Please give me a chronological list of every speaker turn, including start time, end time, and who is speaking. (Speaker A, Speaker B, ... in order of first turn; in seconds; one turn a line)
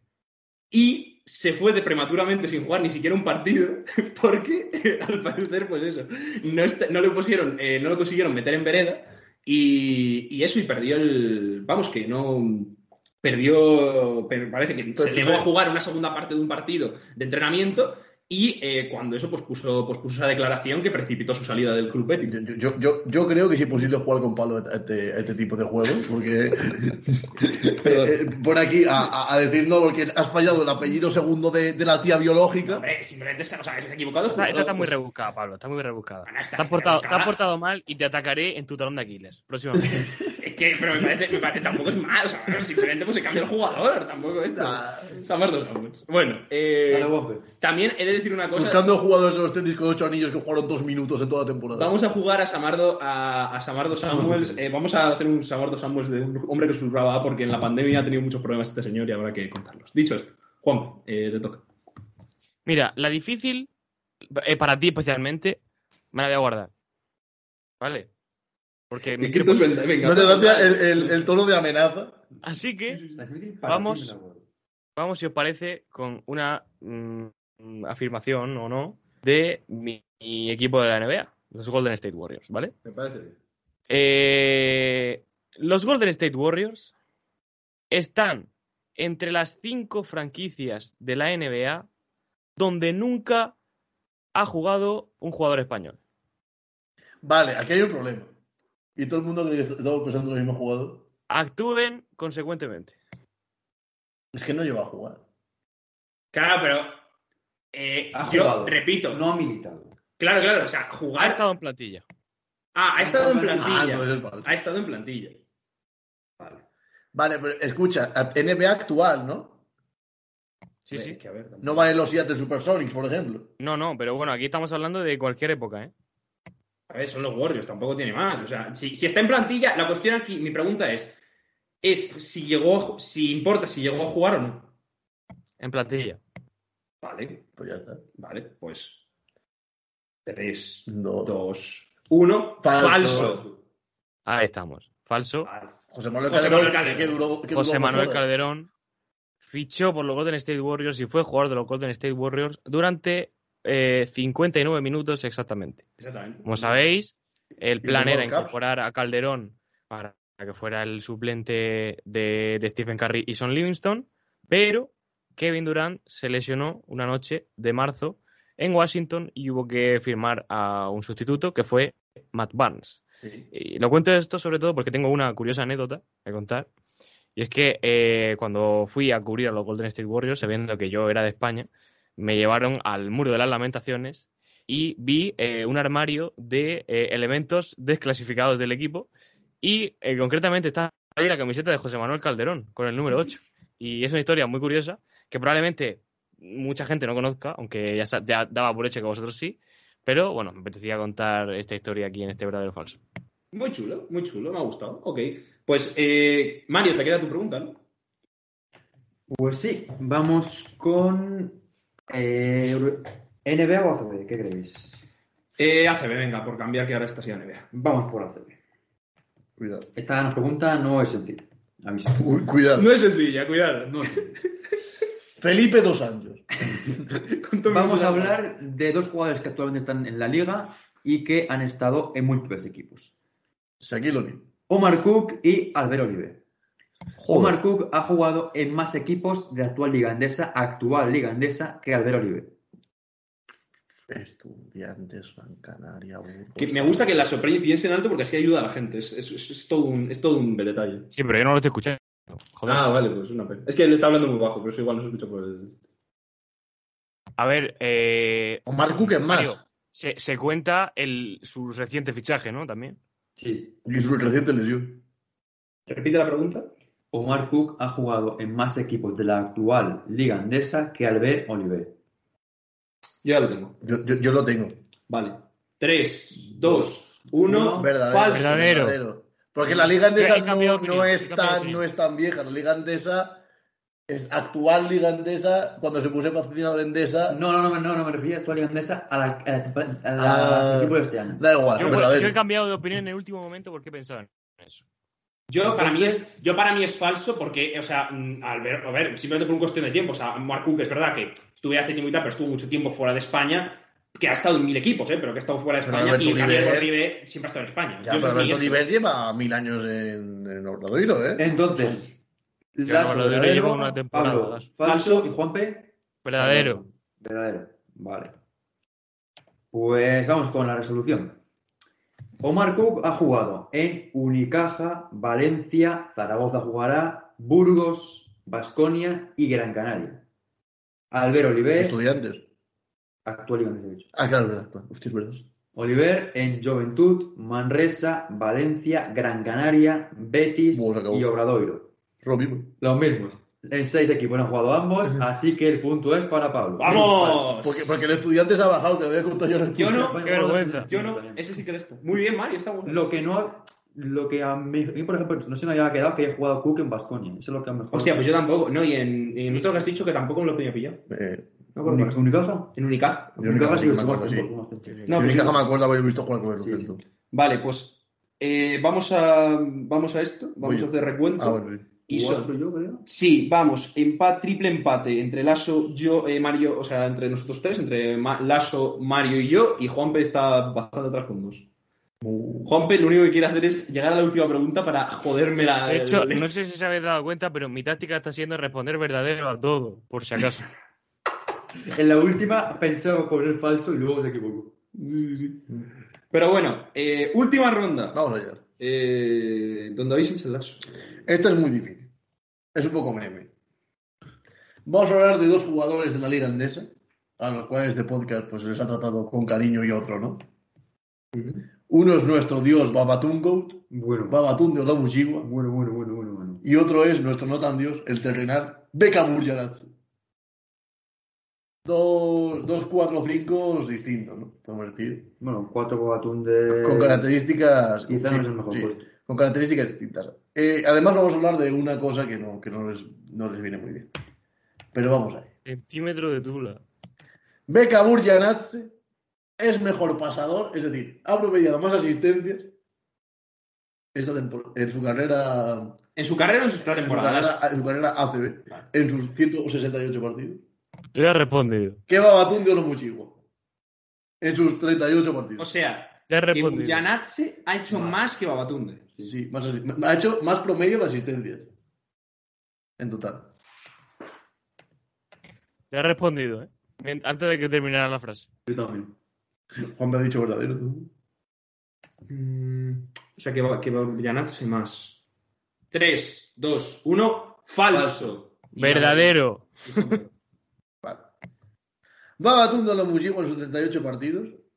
Speaker A: 0.7-22.4
Speaker B: 14.9-15.5
Speaker B: 22.3-32.9
Speaker A: 27.6-28.3
Speaker A: 32.6-35.0
Speaker C: 34.4-40.1
Speaker A: 36.3-37.4
Speaker A: 40.3-48.9
Speaker B: 44.5-45.2
Speaker D: 46.9-47.5
Speaker B: 48.5-51.9
Speaker A: 51.7-61.6
Speaker D: 54.0-54.6
Speaker C: 62.7-63.7
Speaker C: 64.3-65.6
Speaker C: 66.1-66.7
Speaker C: 67.8-68.1
Speaker C: 68.9-69.7
Speaker A: 69.2-71.2
Speaker B: 70.0-72.2
Speaker C: 72.4-73.0
Speaker D: 73.1-74.5
Speaker C: 73.7-74.2
Speaker C: 75.0-82.7
Speaker A: 82.8-83.3
Speaker C: 83.9-86.9
Speaker C: 87.9-91.9
Speaker C: 92.6-93.5
Speaker C: 94.3-96.0
Speaker B: 97.2-98.3
Speaker B: 99.0-101.0
Speaker C: 101.3-103.0
Speaker B: 104.3-105.2
Speaker A: 106.3-107.0
Speaker A: 107.7-109.2
Speaker D: 108.1-109.9
Speaker A: 110.2-111.4
Speaker C: 111.2-112.0
Speaker A: 112.8-115.4
Speaker D: 113.0-113.8
Speaker B: 113.6-114.5
Speaker A: 116.4-116.6
Speaker B: 117.1-119.6
Speaker C: 120.9-121.2
Speaker A: 120.9-122.0
Speaker B: 121.6-123.5
Speaker C: 123.6-125.9
Speaker A: 126.9-131.1
Speaker A: 131.8-134.7
Speaker C: 135.6-136.2
Speaker A: 137.0-137.5
Speaker B: 137.6-138.0
Speaker A: 138.2-139.0
Speaker A: 140.3-143.5
Speaker B: 140.9-141.3
Speaker B: 142.6-143.4
Speaker D: 143.0-143.5
Speaker C: 144.3-145.5
Speaker A: 145.4-145.7
Speaker B: 145.9-148.3
Speaker A: 146.3-147.2
Speaker C: 147.5-148.7
Speaker C: 149.4-155.8
Speaker A: 156.0-156.8
Speaker C: 156.4-176.7
Speaker B: 157.8-158.6
Speaker B: 173.2-173.5
Speaker C: 177.4-189.1
Speaker C: 189.6-203.0
Speaker A: 203.5-207.8
Speaker D: 209.3-215.0
Speaker A: 215.6-217.7
Speaker D: 217.7-218.6
Speaker B: 219.6-219.9
Speaker D: 219.9-222.4
Speaker B: 222.2-222.9
Speaker A: 222.8-224.4
Speaker D: 223.9-224.4
Speaker B: 225.4-226.5
Speaker A: 227.2-228.4
Speaker D: 227.7-233.1
Speaker B: 233.8-234.5
Speaker D: 234.7-236.4
Speaker D: 237.2-242.6
Speaker B: 244.1-247.2
Speaker A: 246.6-251.1
Speaker C: 251.1-252.9
Speaker A: 252.7-255.8
Speaker C: 257.4-263.0
Speaker B: 258.7-259.6
Speaker D: 263.4-263.8
Speaker B: 263.9-265.0
Speaker A: 265.9-266.7
Speaker D: 267.1-272.0
Speaker A: 273.2-273.8
Speaker B: 273.8-274.8
Speaker A: 275.1-278.7
Speaker D: 276.6-278.0
Speaker B: 277.7-283.4
Speaker C: 278.3-279.0
Speaker C: 280.1-281.8
Speaker B: 284.1-287.4
Speaker D: 287.3-291.4
Speaker B: 290.2-292.4
Speaker C: 291.8-294.8
Speaker A: 295.5-308.8
Speaker D: 295.7-296.1
Speaker B: 305.8-306.9
Speaker B: 308.0-312.0
Speaker D: 311.4-312.2
Speaker D: 312.8-318.3
Speaker C: 312.9-314.7
Speaker A: 314.8-315.3
Speaker C: 316.2-316.8
Speaker D: 319.7-321.4
Speaker D: 322.4-330.2
Speaker D: 331.1-332.0
Speaker B: 331.8-332.4
Speaker D: 333.2-334.1
Speaker B: 334.1-335.4
Speaker D: 335.7-341.9
Speaker B: 340.7-341.3
Speaker B: 342.2-342.7
Speaker D: 342.8-347.6
Speaker A: 346.8-348.0
Speaker B: 346.9-350.2
Speaker A: 349.8-350.3
Speaker D: 349.8-351.6
Speaker C: 350.2-350.9
Speaker A: 350.9-353.1
Speaker D: 352.9-358.3
Speaker A: 357.9-361.0
Speaker B: 361.1-361.5
Speaker A: 361.8-363.4
Speaker D: 361.9-362.8
Speaker B: 363.4-364.5
Speaker D: 363.4-365.6
Speaker B: 365.1-367.0
Speaker A: 365.1-365.6
Speaker D: 366.6-366.9
Speaker A: 367.3-381.7
Speaker B: 370.6-371.9
Speaker D: 372.1-373.0
Speaker B: 382.2-382.7
Speaker A: 382.6-386.5
Speaker C: 385.9-390.7
Speaker D: 391.9-394.8
Speaker A: 394.9-398.2
Speaker B: 398.1-398.6
Speaker A: 398.8-400.9
Speaker B: 401.3-402.1
Speaker B: 402.8-403.5
Speaker B: 404.9-410.4
Speaker A: 411.4-411.6
Speaker B: 411.9-415.5
Speaker D: 413.9-414.4
Speaker D: 415.4-416.6
Speaker B: 416.6-419.9
Speaker B: 421.9-425.3
Speaker D: 425.4-427.3
Speaker B: 426.7-434.1
Speaker D: 428.1-429.1
Speaker B: 434.9-435.5
Speaker C: 435.7-436.8
Speaker B: 437.7-438.9
Speaker B: 439.6-442.7
Speaker B: 444.1-446.0
Speaker A: 446.2-447.6
Speaker B: 446.8-450.6
Speaker C: 451.1-452.0
Speaker B: 452.1-453.4
Speaker B: 454.4-455.7
Speaker A: 455.6-459.1
Speaker C: 456.3-457.0
Speaker B: 459.2-461.7
Speaker B: 463.0-463.5
Speaker C: 465.9-468.5
Speaker D: 468.7-469.1
Speaker B: 469.8-471.1
Speaker A: 472.3-475.2
Speaker A: 475.9-480.3
Speaker D: 477.9-478.4
Speaker C: 478.8-480.2
Speaker B: 482.4-484.6